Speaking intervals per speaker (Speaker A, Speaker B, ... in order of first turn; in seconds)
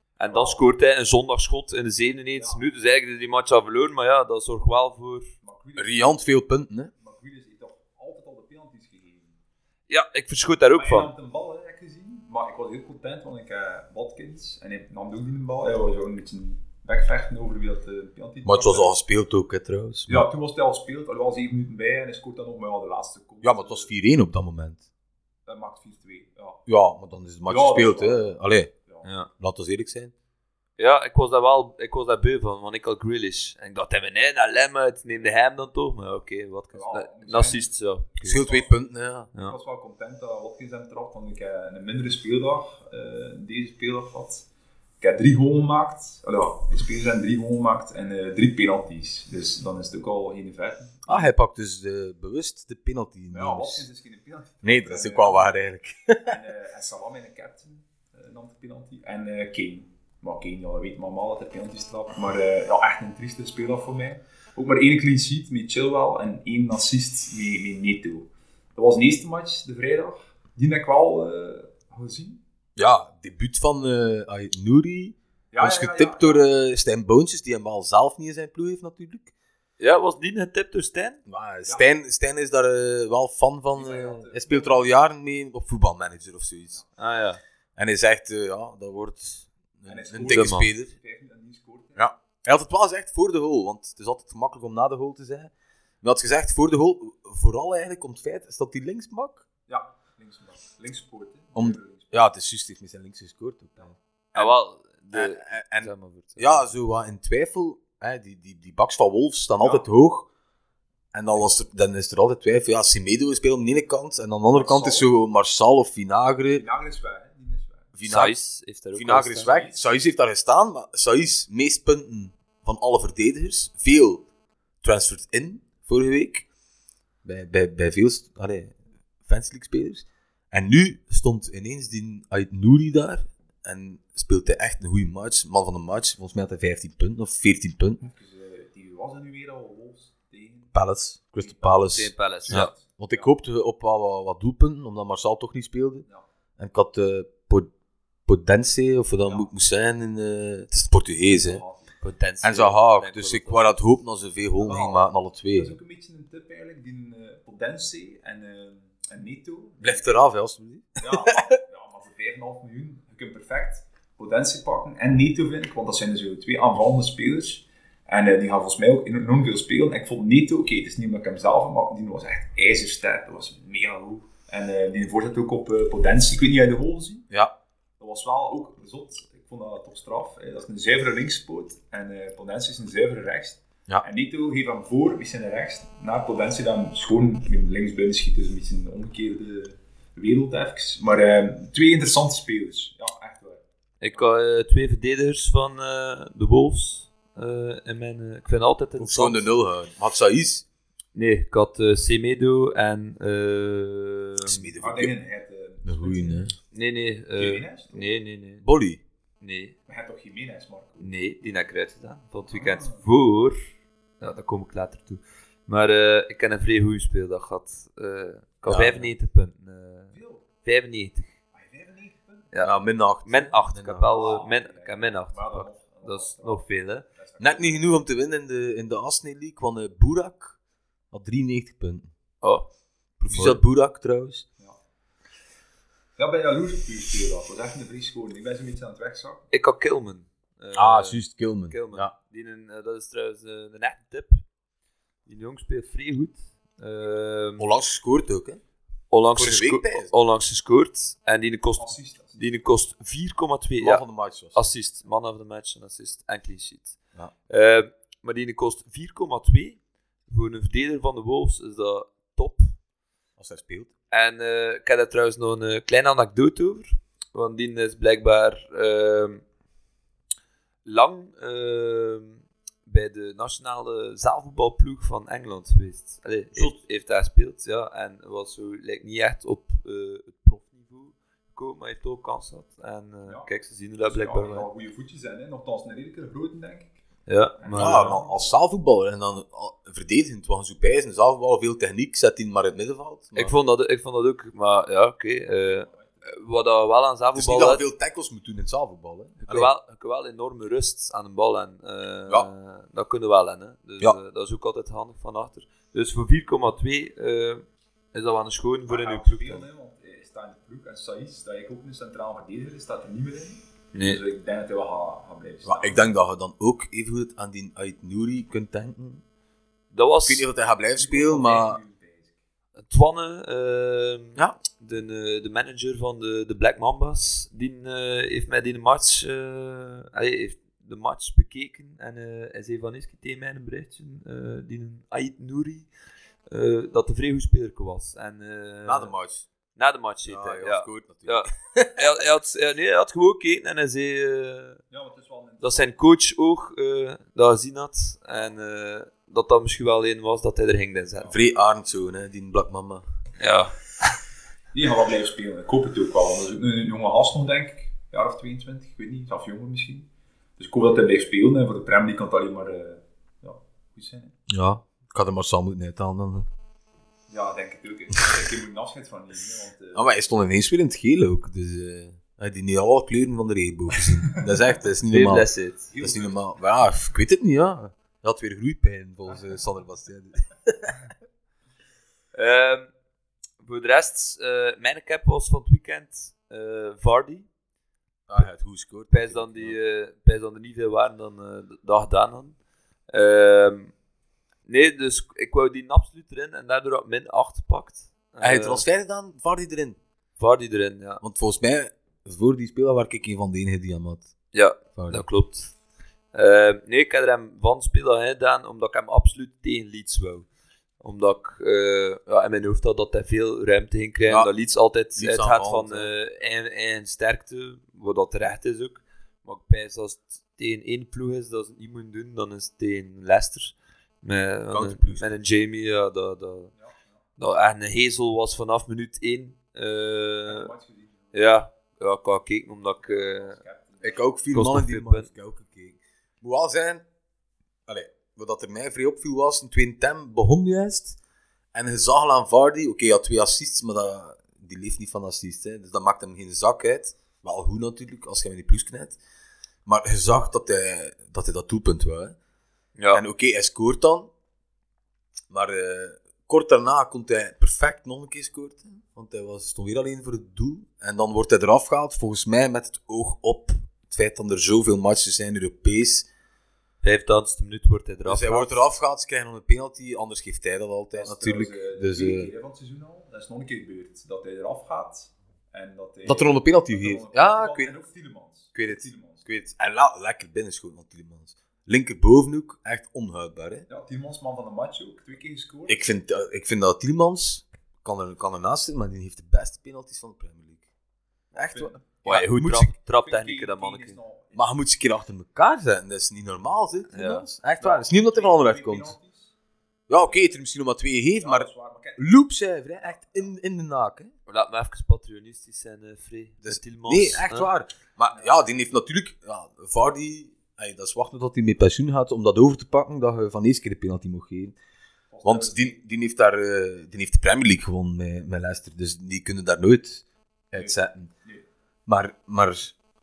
Speaker A: 0.2-5.3, 9.9-11.1, 29.0-29.3, 30.8-38.4, 79.8-81.2, 87.0-87.4, 90.3-90.7, 104.3-106.7, 118.1-119.6, 141.9-142.7, 152.0-153.8, 194.0-199.4, 201.2-204.7, 206.7-208.7, 209.4-209.8, 211.0-213.7, 214.2-221.3, 223.2-227.1, 232.4-232.7, 233.3-233.6, 239.5-244.4, 245.3-247.7, 249.1-257.0, 257.5-262.8, 264.1-269.4, 270.9-284.7, 287.3-288.2, 293.4-297.8, 299.4-309.6, 313.9-314.2, 319.9-320.4, 322.8-335.9, 336.5-339.1, 339.8-344.8, 345.6-351.3, 353.4-353.9, 375.1-375.9, 382.3-382.9, 383.6-387.5, 389.1-392.6, 393.1-393.9, 394.7-398.9, 400.4-401.2, 404.5-405.7, 406.3-410.5, 411.0-426.7, 427.4-430.7, 431.3-433.6, 434.5-435.3, 453.0-453.2, 467.0-468.8, 492.2-494.2, 497.1-497.4, 504.5-507.7
Speaker B: 0.2-0.6, 2.4-2.6, 5.4-6.2, 7.0-9.3, 10.8-18.9, 20.1-23.9, 25.5-26.6, 27.5-29.1, 36.7-38.8, 39.3-44.5, 45.0-51.3, 53.3-55.5, 56.3-72.4, 75.5-76.5, 83.8-84.9, 89.9-92.1, 99.7-102.2, 109.6-109.9, 114.5-115.1, 116.5-117.9, 119.4-119.9, 138.0-140.7, 141.4-141.9, 142.4-143.3, 149.2-149.5, 151.2-151.9, 154.6-160.1, 161.0-177.3, 178.0-193.6, 204.8-206.5, 207.4-208.1, 209.9-211.1, 212.5-213.0, 220.1-220.4, 221.5-222.5, 224.1-228.0, 236.2-239.4, 251.8-252.4, 284.0-287.0, 287.6-288.6, 295.7-296.3, 308.9-316.1, 321.0-322.3, 344.9-345.9, 354.7-360.1, 360.6-364.3, 367.3-370.1, 375.9-376.6, 426.8-427.0, 430.5-431.3, 433.0-434.2, 471.1-479.5, 483.9-486.0, 491.6-492.0, 493.2-494.8, 497.8-499.5, 501.4-502.3, 503.0-503.5, 515.3-516.0, 520.8-521.6
Speaker C: 5.8-6.9, 18.4-20.3, 23.4-24.8, 26.7-28.7, 29.4-30.1, 38.2-39.3, 51.1-53.9, 54.6-56.4, 72.8-79.3, 81.3-86.8, 87.8-90.9, 92.0-95.5, 96.0-99.5, 101.5-104.6, 105.1-110.3, 111.1-116.6, 118.0-118.3, 118.9-124.2, 124.8-126.5, 127.2-128.7, 129.2-138.0, 140.7-146.1, 146.6-147.7, 148.3-151.6, 152.4-155.7, 159.8-161.6, 199.0-200.7, 204.4-205.1, 205.8-206.6, 208.6-209.0, 218.7-219.1, 222.6-224.3, 227.4-230.6, 231.1-232.1, 233.2-234.5, 240.7-242.1, 247.6-248.6, 249.3-250.1, 253.8-254.7, 263.4-263.9, 287.8-293.5, 297.4-299.7, 315.6-319.2, 320.2-321.8, 338.9-339.5, 340.2-342.1, 351.3-353.1, 364.5-366.5, 369.9-381.0, 388.3-389.8, 398.4-400.0, 401.2-404.3, 404.9-405.2, 415.2-416.1, 424.7-425.3, 434.0-437.0, 437.9-441.2, 441.7-449.2, 449.9-452.4, 453.1-454.3, 455.5-466.3, 468.2-472.5, 476.2-477.9, 478.8-483.9, 485.9-490.9, 491.5-492.9, 494.6-499.1, 500.1-504.3, 506.6-514.8, 515.4-521.3, 522.1-523.0